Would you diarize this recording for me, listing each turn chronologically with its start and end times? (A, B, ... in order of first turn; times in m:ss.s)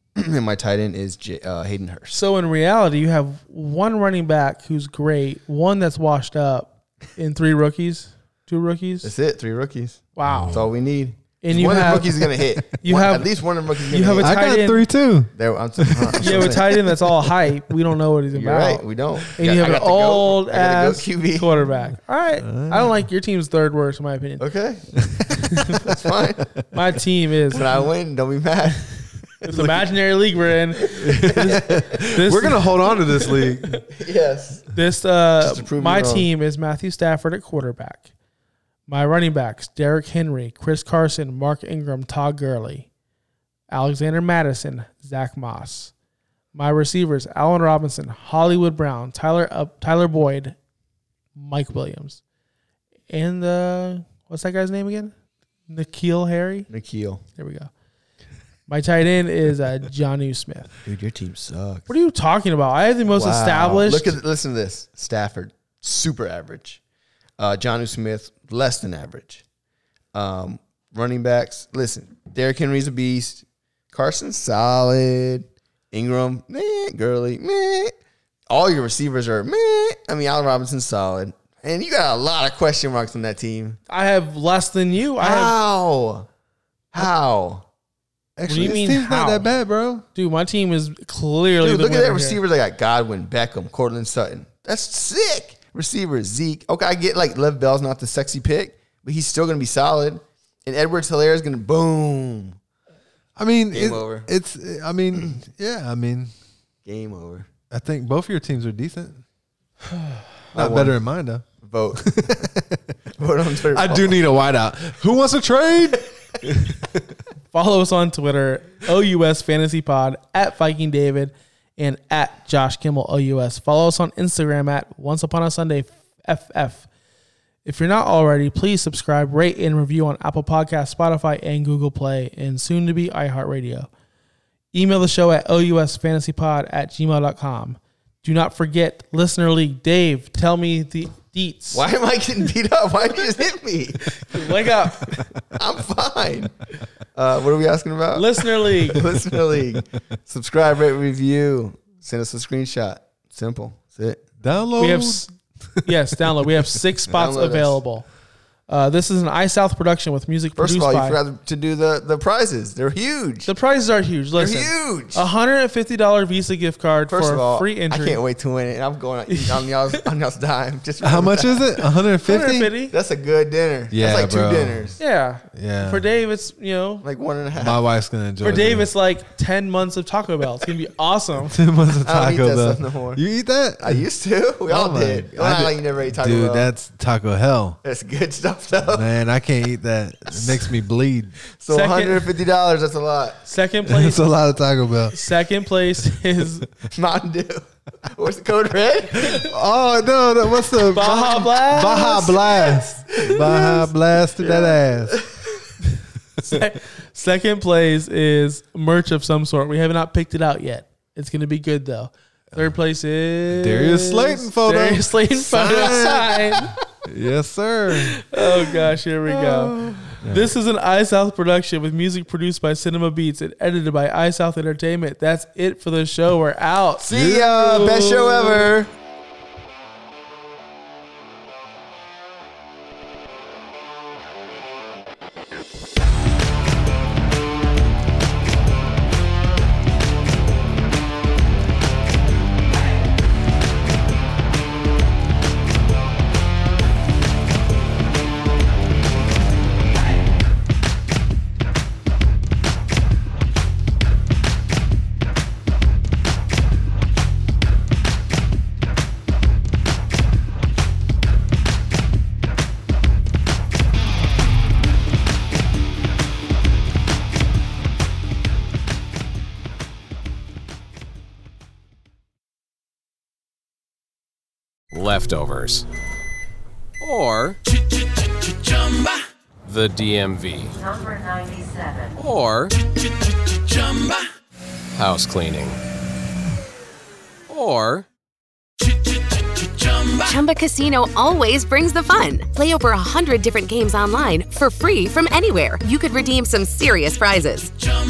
0:00.2-0:02.2 A
0:02.1-0:09.1 B
0:09.0-0:14.4 A
0:10.2-0:10.6 B
0:10.2-0:10.6 C
0:11.4-0:12.3 B
0:12.8-0:13.3 B
0:13.9-0:14.8 B
0:14.2-0:17.3 C
0:15.3-0:16.6 A
0:16.2-0:18.8 B
0:18.3-0:21.5 A
0:19.4-0:24.4 B
0:22.4-0:22.9 C
0:24.4-0:25.0 A
0:25.0-0:25.3 C
0:25.8-0:26.5 A
0:26.7-0:27.6 B
0:27.5-0:29.2 A
0:29.4-0:33.8 B
0:29.5-0:29.9 C
0:30.9-0:33.8 C
0:31.5-0:31.9 A
0:33.9-0:34.6 A
0:34.7-0:38.1 B
0:35.4-0:36.3 A
0:38.9-0:42.9 B
0:43.7-0:45.9 B
0:46.5-0:50.6 B
0:51.4-0:52.2 B
0:53.1-0:55.1 B
0:55.7-0:56.7 B
0:56.7-0:57.2 A
0:57.4-0:57.7 B
0:58.7-1:00.7 B
1:00.8-1:01.9 A
1:01.9-1:04.2 B
1:03.1-1:06.8 A
1:07.4-1:09.4 A
1:10.1-1:17.9 A
1:18.5-1:23.8 A
1:23.9-1:25.5 B
1:25.2-1:26.3 A
1:26.9-1:27.6 A
1:28.4-1:30.0 C
1:28.4-1:29.5 B
1:30.1-1:32.4 B
1:31.6-1:42.6 A
1:43.4-1:46.3 C
1:43.7-1:44.3 A
1:46.8-1:47.5 A
1:47.7-1:49.2 C
1:50.5-1:52.8 C
1:50.5-1:51.0 A
1:51.6-1:52.3 A
1:53.2-1:54.2 A
1:53.7-1:57.0 C
1:57.5-2:06.9 B
2:07.6-2:13.9 B
2:14.7-2:21.8 B
2:21.7-2:26.5 A
2:24.2-2:25.2 B
2:27.1-2:34.2 A
2:28.1-2:29.0 B
2:34.4-2:35.8 C
2:34.8-2:35.3 B
2:35.8-2:38.1 B
2:37.1-2:37.8 A
2:38.7-2:41.2 B
2:40.6-2:43.5 A
2:43.4-2:48.2 B
2:44.3-2:45.3 A
2:47.1-2:51.8 A
2:49.3-2:49.6 B
2:51.0-2:52.7 C
2:52.2-2:52.9 B
2:52.9-2:55.0 A
2:53.9-2:55.0 C
2:55.0-2:57.0 B
2:55.5-2:56.1 C
2:57.0-2:57.8 A
2:57.6-2:58.9 C
2:58.4-3:01.6 B
3:01.5-3:04.0 C
3:02.0-3:03.2 A
3:03.8-3:06.7 A
3:04.7-3:07.8 C
3:07.8-3:09.1 A
3:08.9-3:11.4 C
3:10.3-3:10.7 A
3:11.6-3:13.4 A
3:11.7-3:12.3 B
3:13.4-3:14.2 B
3:13.9-3:15.2 C
3:15.1-3:16.6 B
3:16.9-3:19.4 A
3:19.1-3:25.2 C
3:20.9-3:22.4 B
3:23.3-3:23.8 A
3:24.4-3:25.6 A
3:26.4-3:36.7 B
3:33.5-3:38.2 C
3:38.1-3:47.1 B
3:39.3-3:40.4 C
3:47.0-3:48.9 A
3:47.1-3:48.7 C
4:34.9-4:35.8 D
4:37.0-4:37.6 D
4:39.6-4:40.8 D
4:41.0-4:41.8 E
4:42.1-4:42.8 D
4:44.9-4:45.8 D
4:47.5-4:48.1 D
4:50.2-4:57.7 E